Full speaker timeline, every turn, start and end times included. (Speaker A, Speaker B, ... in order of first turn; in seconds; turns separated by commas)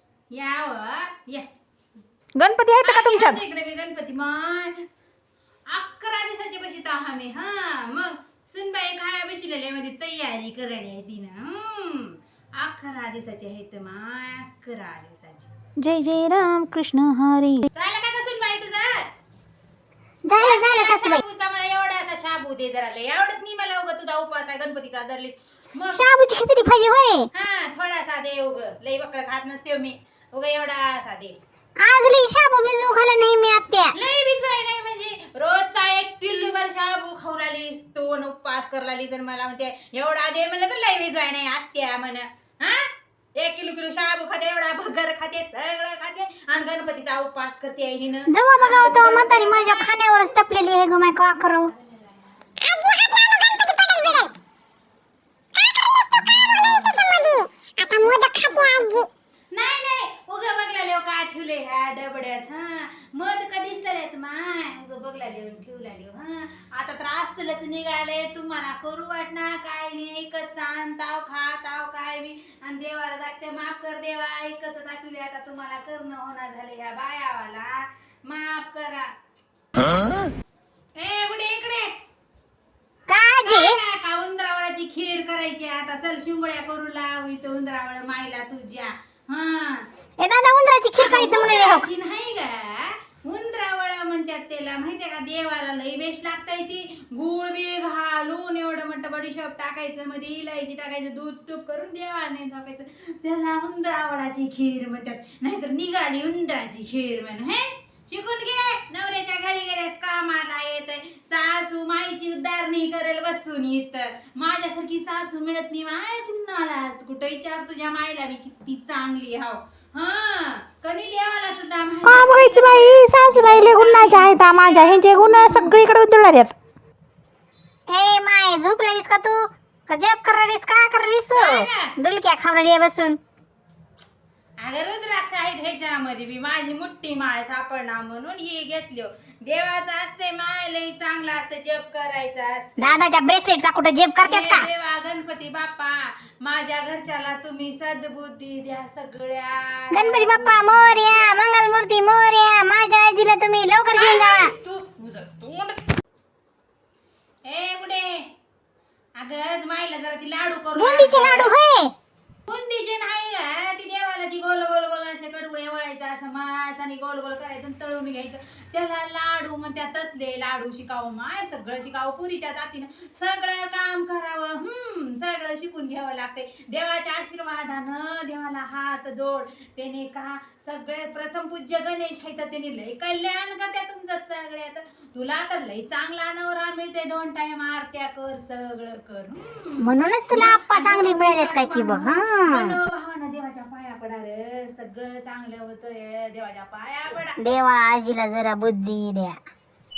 Speaker A: 0.3-1.5, Speaker B: 2.4-3.4, Speaker A: 2.8-4.8, Speaker A: 5.7-15.5, Speaker B: 15.8-17.7, Speaker A: 17.7-19.1, Speaker C: 20.3-21.2, Speaker A: 20.4-26.1, Speaker C: 25.9-27.3, Speaker A: 27.3-31.4, Speaker C: 31.8-33.9, Speaker A: 33.9-50.0, Speaker C: 48.3-51.7, Speaker A: 51.7-52.4, Speaker C: 52.6-54.3, Speaker C: 55.6-59.1, Speaker A: 59.5-79.1, Speaker A: 81.0-81.9, Speaker C: 83.1-83.8, Speaker A: 83.5-89.9, Speaker C: 90.2-91.9, Speaker A: 91.0-125.9, Speaker B: 122.1-126.5, Speaker C: 127.9-133.2, Speaker A: 131.3-131.9, Speaker A: 134.6-143.0, Speaker C: 142.8-144.7, Speaker A: 144.3-151.4, Speaker C: 149.9-154.5, Speaker A: 153.9-155.8, Speaker A: 157.4-158.2, Speaker A: 159.2-161.5, Speaker C: 160.8-161.9, Speaker A: 162.5-197.4, Speaker C: 189.8-192.8, Speaker C: 197.4-199.4